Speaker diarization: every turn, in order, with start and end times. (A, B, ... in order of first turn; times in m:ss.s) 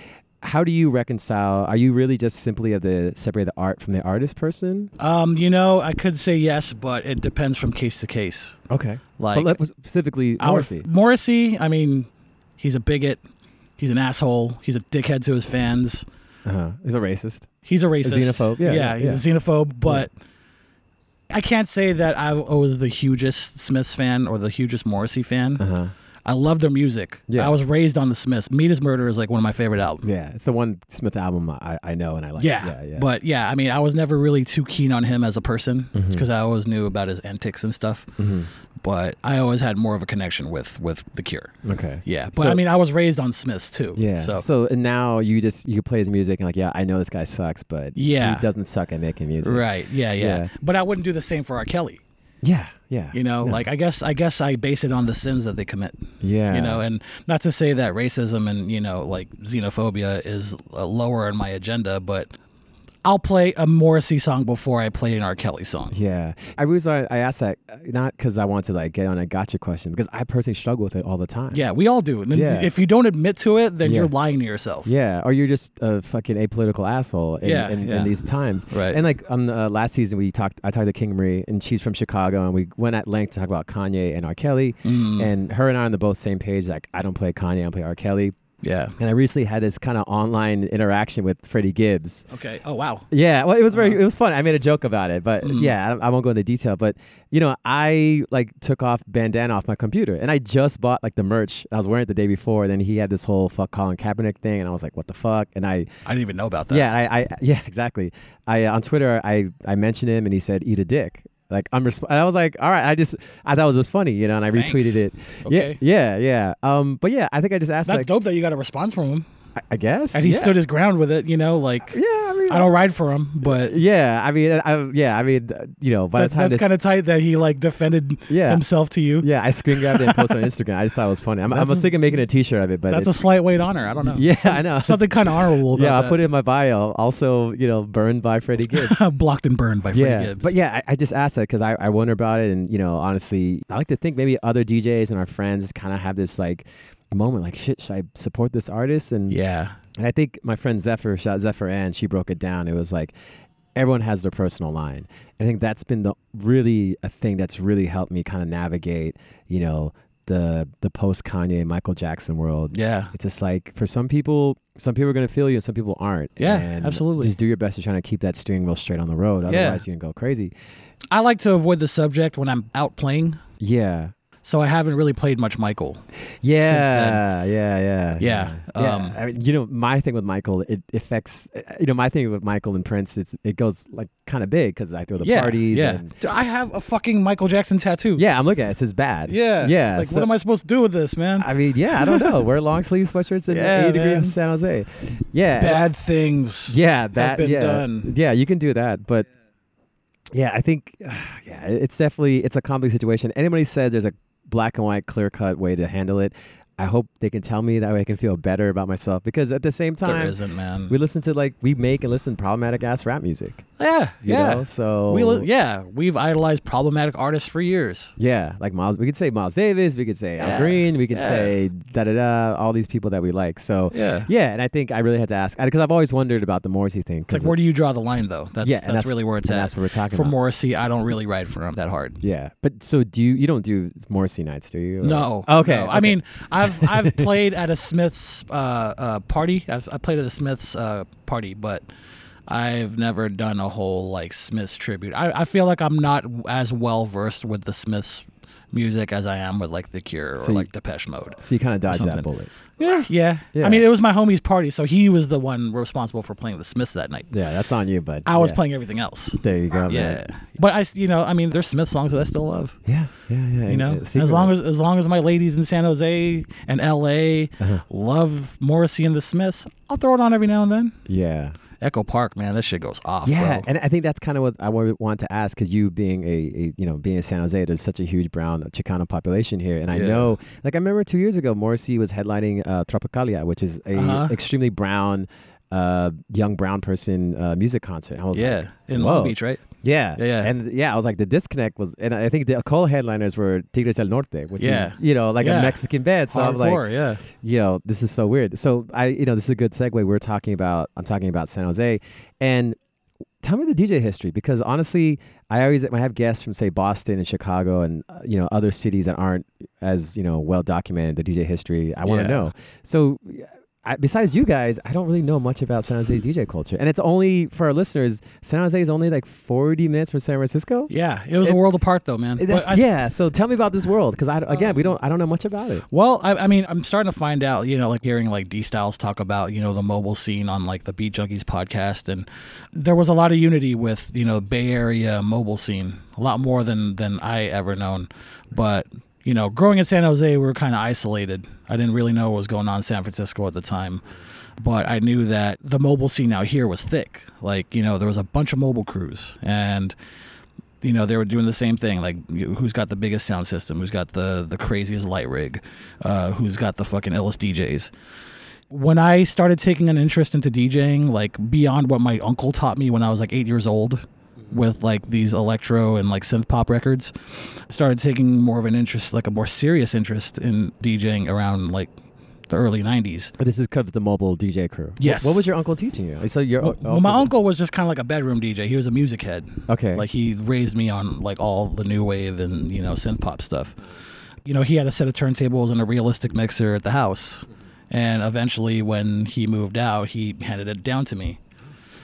0:00.4-0:04.9 A
0:05.0-0:08.6 B
0:08.7-0:10.8 A
0:09.2-0:09.6 B
0:10.4-0:13.2 B
0:13.8-0:16.0 B
0:16.4-0:17.5 A
0:17.6-0:20.1 B
0:18.0-0:19.2 A
0:21.3-0:25.6 B
0:25.6-0:25.9 A
0:26.2-0:30.1 B
0:27.3-0:27.6 A
0:30.0-0:33.1 A
0:32.4-0:38.1 B
0:35.9-0:36.2 A
0:38.2-0:38.5 A
0:38.8-0:44.4 B
0:41.6-0:42.6 A
0:43.9-0:50.5 A
0:48.0-0:48.4 B
0:49.4-0:52.0 B
0:52.4-0:53.6 A
0:53.1-1:02.3 B
0:56.2-0:56.8 A
1:03.0-1:05.9 B
1:05.9-1:11.6 A
1:11.5-1:14.9 B
1:12.3-1:12.7 A
1:13.8-1:14.1 A
1:14.8-1:28.4 A
1:17.4-1:18.1 B
1:18.7-1:19.0 B
1:24.8-1:25.3 B
1:28.6-1:29.0 B
1:29.0-1:32.2 A
1:32.3-1:33.1 B
1:33.1-1:45.9 A
1:33.7-1:34.0 B
1:35.4-1:35.7 B
1:46.0-1:46.9 B
1:46.7-1:58.1 A
1:54.5-1:55.8 B
1:57.8-1:59.3 B
1:59.6-2:00.6 A
2:00.1-2:03.8 B
2:01.9-2:02.7 A
2:03.4-2:06.6 A
2:06.2-2:10.5 B
2:08.3-2:08.6 A
2:09.2-2:13.2 A
2:11.5-2:12.0 B
2:12.9-2:16.2 B
2:14.1-2:15.0 A
2:15.7-2:19.0 A
2:18.7-2:20.5 B
2:19.9-2:29.4 A
2:29.3-2:29.8 B
2:30.0-2:33.1 A
2:33.8-2:50.5 A
2:42.7-2:43.1 B
2:46.4-2:47.3 B
2:49.5-2:49.8 B
2:51.1-2:53.4 B
2:53.6-2:54.1 A
2:54.4-2:56.0 B
2:56.4-3:06.1 A
2:56.5-2:57.2 B
2:58.2-2:59.2 B
3:05.2-3:08.2 B
3:08.2-3:10.3 A
3:09.3-3:12.4 B
3:11.4-3:15.9 A
3:13.5-3:14.4 B
3:15.5-3:18.1 B
3:16.7-3:19.3 A
3:20.3-3:30.4 A
3:30.0-3:30.9 B
3:30.9-3:33.6 A
3:33.8-3:38.1 B
3:34.2-3:35.5 A
3:38.2-3:47.6 A
3:40.4-3:41.5 B
3:43.9-3:44.3 B
3:47.3-3:52.2 B
3:48.6-3:50.3 A
3:52.2-3:57.4 A
3:55.0-4:01.8 B
4:02.5-4:12.2 B
4:10.4-4:10.7 A
4:11.4-4:12.5 A
4:12.8-4:17.3 B
4:13.5-4:13.8 A
4:17.3-4:18.6 A
4:18.2-4:22.8 B
4:19.4-4:20.2 A
4:22.8-4:24.5 A
4:23.6-4:31.0 B
4:31.1-4:31.6 A
4:31.8-4:33.7 B
4:33.2-5:02.8 A
4:39.9-4:40.3 B
4:43.9-4:44.4 B
4:48.3-4:49.6 B
4:50.2-4:50.5 B
4:54.6-4:57.2 B
5:03.4-5:20.9 A
5:12.0-5:12.4 B
5:20.9-5:22.8 B
5:22.4-5:25.8 A
5:25.9-5:44.0 B
5:44.6-5:49.9 B
5:50.8-5:57.9 B
5:58.7-6:11.9 B
6:12.5-6:13.3 B
6:13.4-6:17.3 A
6:15.0-6:15.5 B
6:16.6-6:23.8 B
6:19.7-6:20.0 A
6:24.4-6:31.4 B